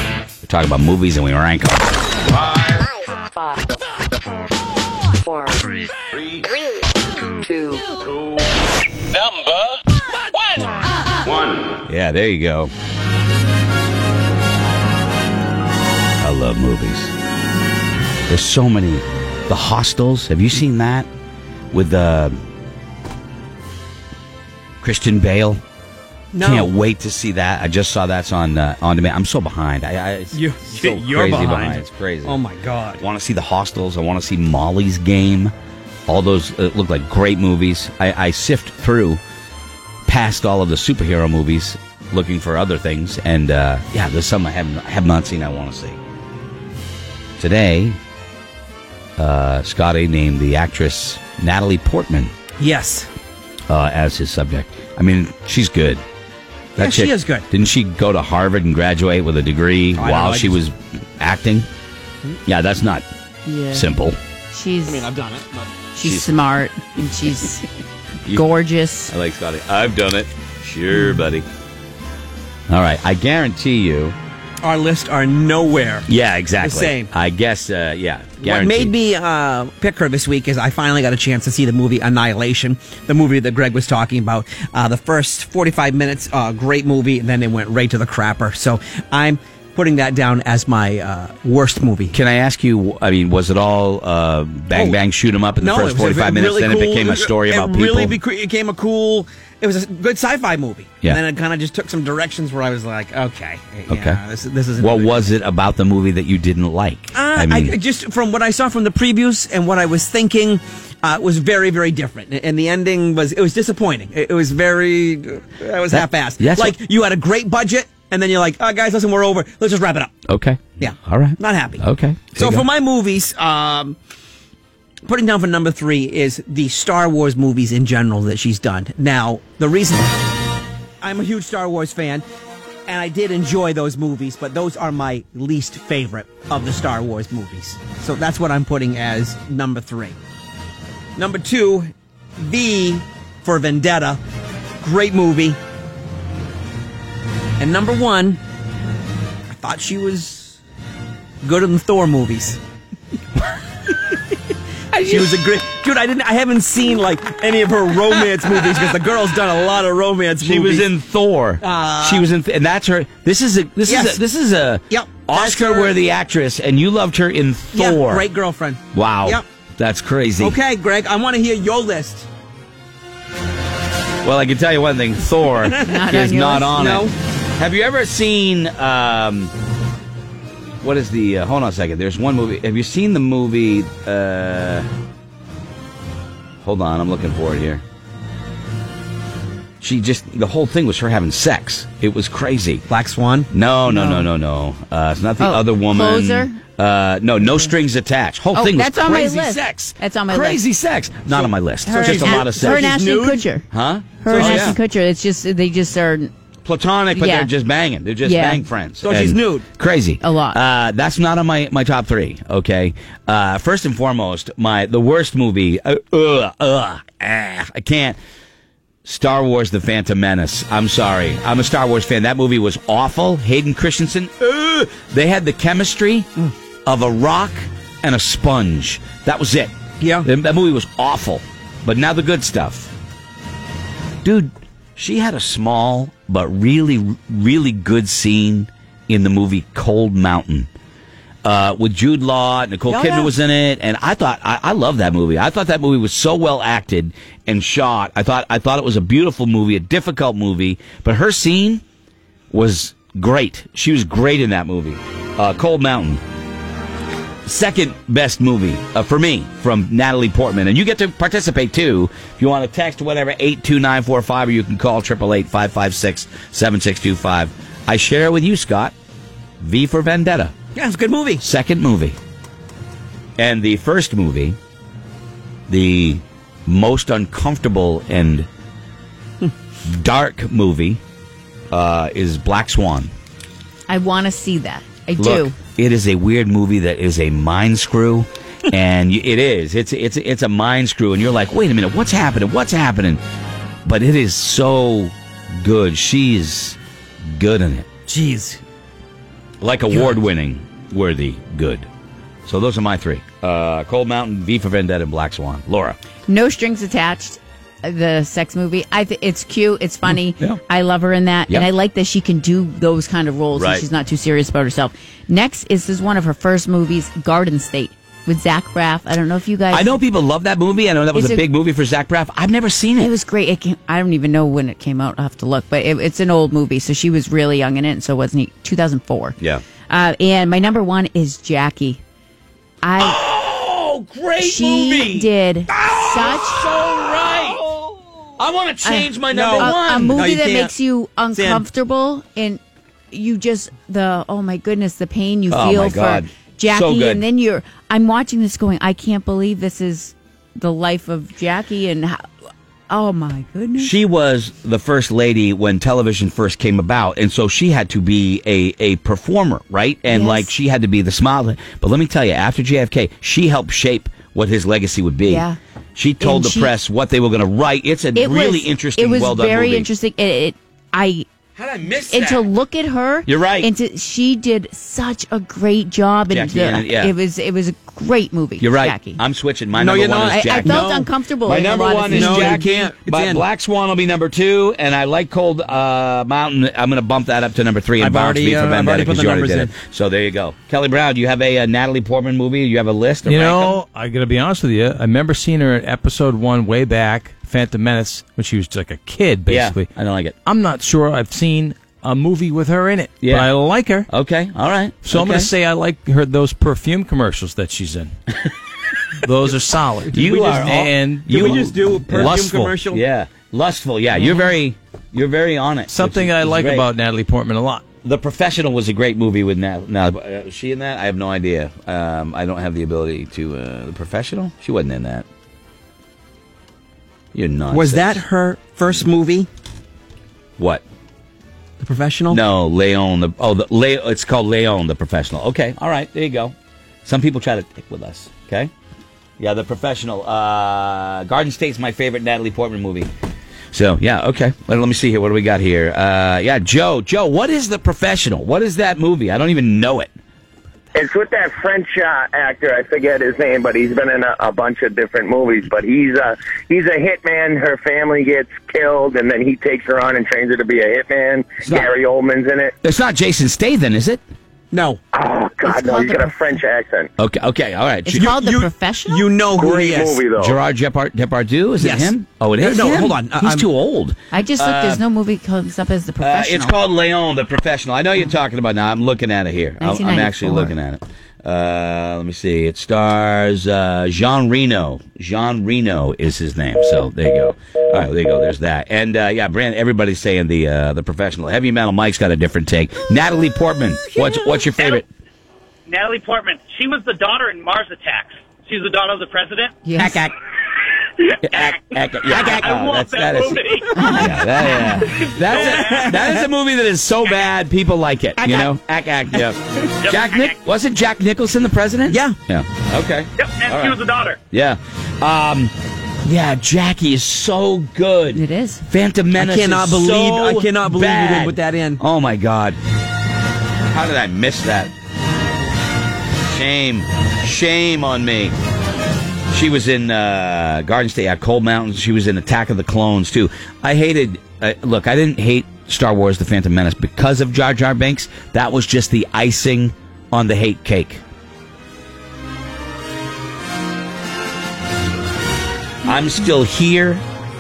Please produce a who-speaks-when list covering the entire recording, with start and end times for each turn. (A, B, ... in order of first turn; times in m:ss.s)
0:00.4-0:01.9 A
0:02.6-0:03.6 B
0:05.2-0:05.9 B
0:07.4-0:07.9 B
0:11.9-0:12.7 A
0:16.2-0:17.1 A
0:18.3-0:21.1 A
0:21.7-0:22.4 A
0:24.8-0:25.6 A
0:26.3-0:26.7 C
0:26.4-0:32.4 A
0:30.3-0:33.0 C
0:33.0-0:35.5 A
0:36.1-0:39.2 A
0:40.1-0:46.0 A
0:47.4-0:48.0 A
0:49.2-0:52.3 A
0:52.6-0:53.1 C
0:53.7-0:56.0 A
0:56.8-1:01.7 A
0:56.8-0:57.5 C
1:00.0-1:00.6 C
1:02.5-1:03.0 A
1:03.4-1:03.9 D
1:03.7-1:04.2 A
1:04.5-1:05.1 D
1:04.8-1:05.7 C
1:05.9-1:07.6 D
1:06.0-1:06.4 A
1:08.3-1:09.1 D
1:09.1-1:11.5 A
1:12.7-1:14.2 A
1:14.6-1:16.1 C
1:16.1-1:18.9 A
1:16.6-1:17.1 C
1:18.4-1:32.2 C
1:32.1-1:38.2 A
1:34.7-1:35.0 C
1:35.6-1:45.3 C
1:43.9-1:44.2 A
1:44.8-1:47.8 A
1:47.1-2:00.1 C
1:55.9-1:56.8 A
2:00.3-2:02.7 A
2:00.7-2:04.0 C
2:05.0-2:10.1 C
2:11.0-2:12.2 C
2:12.9-2:20.2 C
2:21.2-2:24.2 C
2:24.8-2:25.6 C
2:27.6-2:28.4 C
2:29.6-2:30.6 C
2:31.4-2:32.6 C
2:34.9-2:40.9 C
2:35.0-2:35.3 A
2:40.4-2:48.2 A
2:41.6-2:42.3 C
2:43.8-2:44.2 C
2:44.9-2:46.0 C
2:47.7-2:49.4 C
2:48.9-2:50.6 A
2:50.4-2:52.3 C
2:54.2-2:59.5 A
2:55.8-2:56.8 D
2:56.7-2:57.1 C
3:00.8-3:04.9 A
3:06.6-3:07.8 A
3:09.8-3:12.9 A
3:12.9-3:13.5 C
3:13.5-3:22.9 A
3:13.9-3:14.2 D
3:15.4-3:16.6 D
3:18.5-3:20.6 D
3:21.8-3:23.7 D
3:21.9-3:23.5 C
3:23.7-3:24.8 A
3:24.2-3:26.3 D
3:24.3-3:24.8 C
3:26.6-3:38.2 A
3:27.1-3:27.5 D
3:28.2-3:28.7 D
3:29.0-3:29.7 C
3:30.2-3:30.6 D
3:39.0-3:46.3 A
3:46.9-3:52.9 A
3:50.0-3:50.3 C
3:54.2-4:00.7 A
4:01.4-4:11.8 A
4:02.9-4:03.3 C
4:12.5-4:16.2 A
4:17.5-4:28.9 A
4:29.6-4:30.5 A
4:30.8-4:31.4 C
4:31.4-4:32.2 A
4:33.4-4:34.6 A
4:35.7-4:38.5 A
4:39.8-4:41.0 A
4:41.7-4:43.1 A
4:43.9-4:45.6 D
4:45.2-4:53.2 A
4:53.9-4:57.9 A
4:58.1-4:58.6 C
4:59.6-5:01.9 A
5:02.5-5:06.0 A
5:06.3-5:20.0 D
5:10.1-5:10.6 A
5:13.5-5:13.9 A
5:19.7-5:23.1 A
5:21.1-5:21.4 D
5:23.0-5:29.4 D
5:29.9-5:32.0 D
5:32.8-5:33.2 D
5:33.0-5:40.2 A
5:34.4-5:36.7 D
5:38.8-5:42.6 D
5:39.3-5:40.7 C
5:41.3-5:41.6 C
5:43.1-5:52.3 D
5:45.5-5:47.2 A
5:52.9-5:54.0 D
5:53.8-6:09.9 A
6:00.1-6:00.5 D
6:05.3-6:05.6 D
6:06.2-6:06.7 D
6:08.2-6:11.3 D
6:11.6-6:12.5 A
6:12.1-6:19.2 D
6:13.3-6:13.7 A
6:16.3-6:17.1 A
6:18.6-6:20.9 A
6:19.7-6:21.1 C
6:20.3-6:22.6 D
6:21.4-6:33.8 A
6:22.1-6:23.5 C
6:28.0-6:29.7 C
6:33.2-6:39.9 E
6:39.5-6:40.4 A
6:40.4-6:44.1 E
6:43.2-6:43.5 A
6:44.1-6:45.5 A
6:45.0-6:48.1 E
6:49.2-6:52.8 E
6:50.1-6:56.9 A
6:50.2-6:50.7 C
6:51.3-6:53.0 C
6:55.9-6:57.8 E
6:58.0-7:05.3 A
7:07.3-7:08.2 A
7:07.7-7:09.5 C
7:10.6-7:10.8 A
7:11.8-7:12.4 C
7:12.3-7:16.5 A
7:17.0-7:18.7 A
7:19.4-7:23.1 A
7:23.7-7:30.1 A
7:31.0-7:42.7 F
7:41.6-7:41.9 A
7:42.8-7:44.2 A
7:44.7-7:45.0 C
7:45.1-7:47.1 F
7:45.7-7:46.5 D
7:47.2-7:48.3 A
7:48.1-7:49.3 D
7:48.2-7:50.3 C
7:49.5-7:50.6 F
7:50.4-7:55.0 A
7:51.8-7:53.7 C
7:54.3-7:56.7 D
7:56.2-8:15.1 A
7:59.8-8:00.7 D
8:14.7-8:15.0 G
8:15.9-8:19.8 G
8:19.8-8:20.2 D
8:20.0-8:20.3 C
8:21.4-8:35.7 A
8:22.3-8:23.9 G
8:23.9-8:25.2 D
8:25.9-8:26.5 C
8:28.4-8:28.7 C
8:30.1-8:30.5 G
8:32.1-8:32.4 C
8:33.4-8:34.4 G
8:36.2-8:42.8 A
8:38.3-8:38.8 D
8:39.3-8:42.0 C
8:43.9-8:44.9 A
8:46.5-8:48.5 A
8:49.5-9:01.2 A
9:06.0-9:07.2 A